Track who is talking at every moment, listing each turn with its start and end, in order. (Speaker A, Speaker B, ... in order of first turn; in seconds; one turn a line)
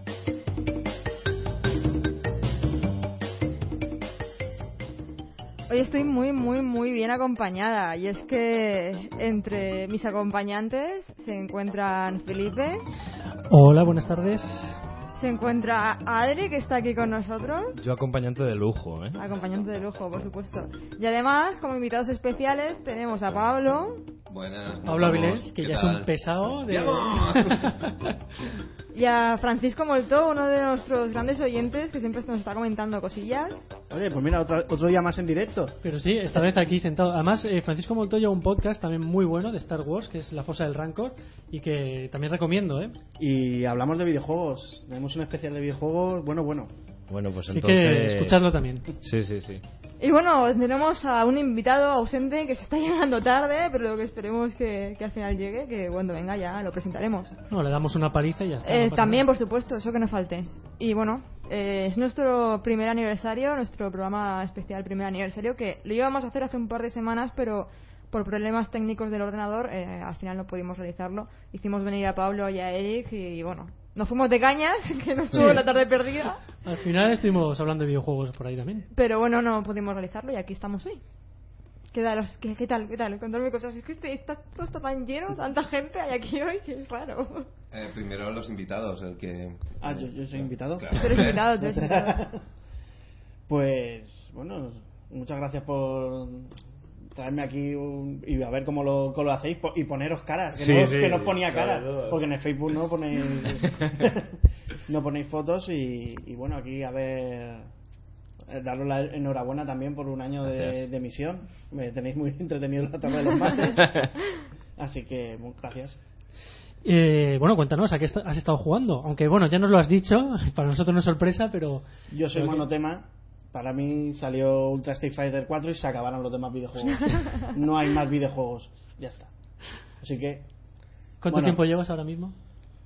Speaker A: 5.7-12.8
Speaker B: 13.5-14.8
Speaker A: 15.2-17.9
Speaker C: 17.8-19.2
Speaker A: 19.2-24.0
Speaker D: 24.3-27.8
Speaker B: 24.9-28.1
Speaker A: 28.9-33.7
Speaker E: 33.9-35.8
Speaker B: 35.8-42.9
Speaker E: 43.2-46.7
Speaker C: 47.1-48.4
Speaker B: 47.5-48.9
Speaker C: 49.0-49.6
Speaker A: 50.0-57.3
Speaker B: 57.5-59.2
Speaker A: 58.6-76.4
Speaker B: 75.3-75.6
Speaker B: 76.6-78.9
Speaker A: 78.9-81.0
Speaker A: 81.9-87.5
Speaker D: 87.7-91.4
Speaker E: 89.8-92.4
Speaker A: 90.9-92.2
Speaker E: 93.5-96.5
Speaker E: 97.1-107.7
Speaker C: 100.6-102.2
Speaker E: 108.5-114.1
Speaker C: 110.5-110.8
Speaker E: 114.8-116.0
Speaker B: 116.8-122.7
Speaker E: 122.1-129.3
Speaker E: 130.0-130.5
Speaker B: 131.2-132.3
Speaker E: 131.3-131.6